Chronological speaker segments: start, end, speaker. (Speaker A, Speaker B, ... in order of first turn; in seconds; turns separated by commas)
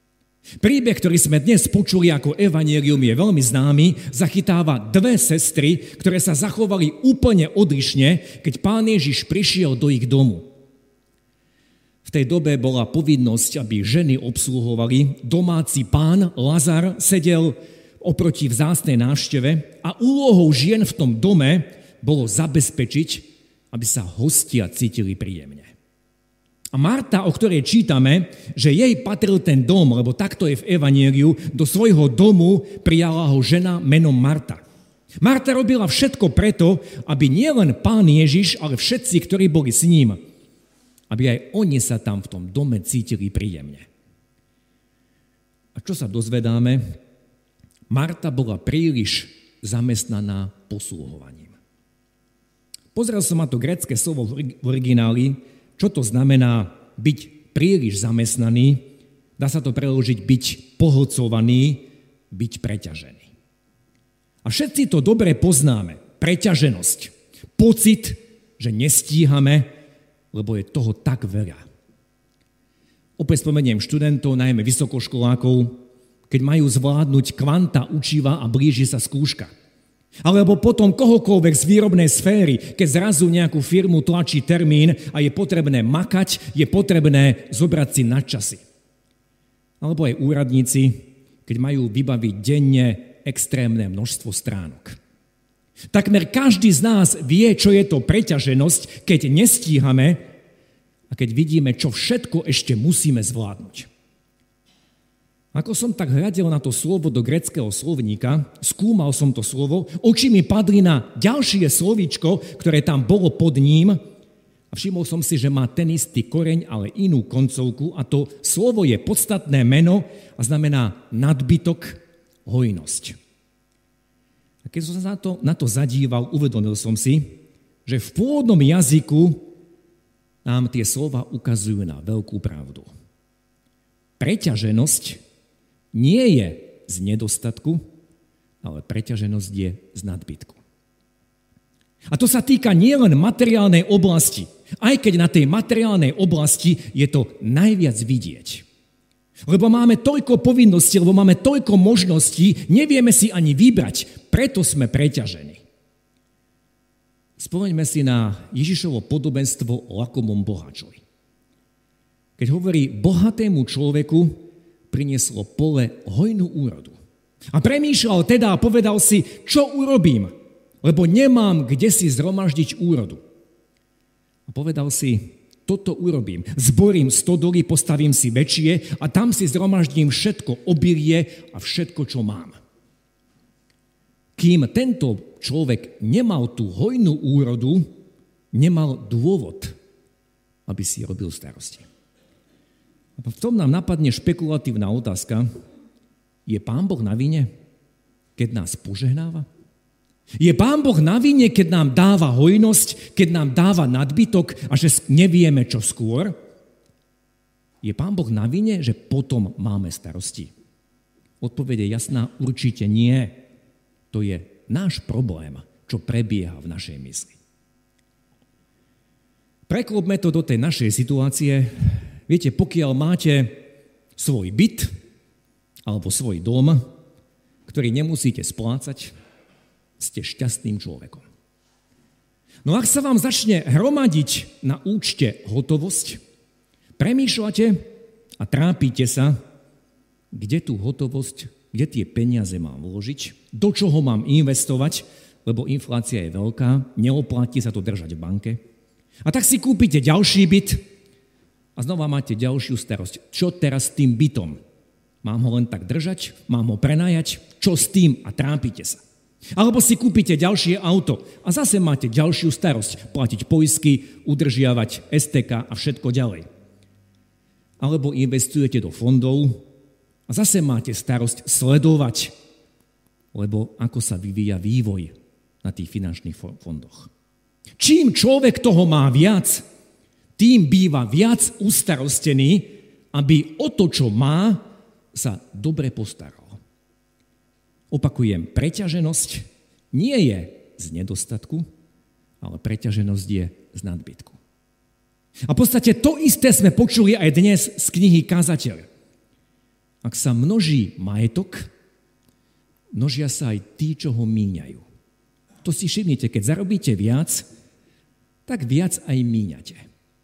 Speaker A: 0.6-10.5, Speaker A: 12.0-25.7, Speaker A: 26.7-34.6, Speaker A: 35.2-40.2, Speaker A: 41.1-43.9, Speaker A: 45.7-46.8, Speaker A: 47.9-51.5, Speaker A: 52.9-58.8, Speaker A: 59.4-63.3, Speaker A: 64.4-69.7, Speaker A: 70.3-71.6, Speaker A: 73.2-79.5, Speaker A: 80.2-88.6, Speaker A: 89.8-95.0, Speaker A: 95.9-100.2, Speaker A: 101.1-103.9, Speaker A: 105.5-114.0, Speaker A: 114.7-123.2, Speaker A: 124.6-129.5, Speaker A: 130.4-132.9, Speaker A: 134.2-135.2, Speaker A: 135.9-137.8, Speaker A: 138.6-140.6, Speaker A: 142.1-148.6, Speaker A: 149.4-155.6, Speaker A: 157.4-161.0, Speaker A: 162.4-166.9, Speaker A: 167.5-173.2, Speaker A: 174.5-182.6, Speaker A: 184.4-187.9, Speaker A: 188.5-189.7, Speaker A: 190.7-191.8, Speaker A: 193.2-195.5, Speaker A: 196.4-197.5, Speaker A: 198.4-199.4, Speaker A: 200.4-206.3, Speaker A: 207.8-210.5, Speaker A: 211.4-213.4, Speaker A: 214.1-217.4, Speaker A: 219.7-223.6, Speaker A: 224.2-224.9, Speaker A: 225.9-226.9, Speaker A: 227.7-229.1, Speaker A: 230.0-231.2, Speaker A: 232.6-236.2, Speaker A: 237.0-237.9, Speaker A: 238.4-239.4, Speaker A: 240.3-248.6, Speaker A: 249.2-250.8, Speaker A: 251.8-254.6, Speaker A: 255.2-259.0, Speaker A: 259.6-266.5, Speaker A: 267.8-269.6, Speaker A: 270.3-272.3, Speaker A: 273.3-277.1, Speaker A: 277.8-279.6, Speaker A: 280.4-286.6, Speaker A: 287.9-291.7, Speaker A: 292.4-294.4, Speaker A: 295.5-298.9, Speaker A: 300.0-301.7, Speaker A: 302.9-304.8, Speaker A: 305.6-307.4, Speaker A: 308.5-309.8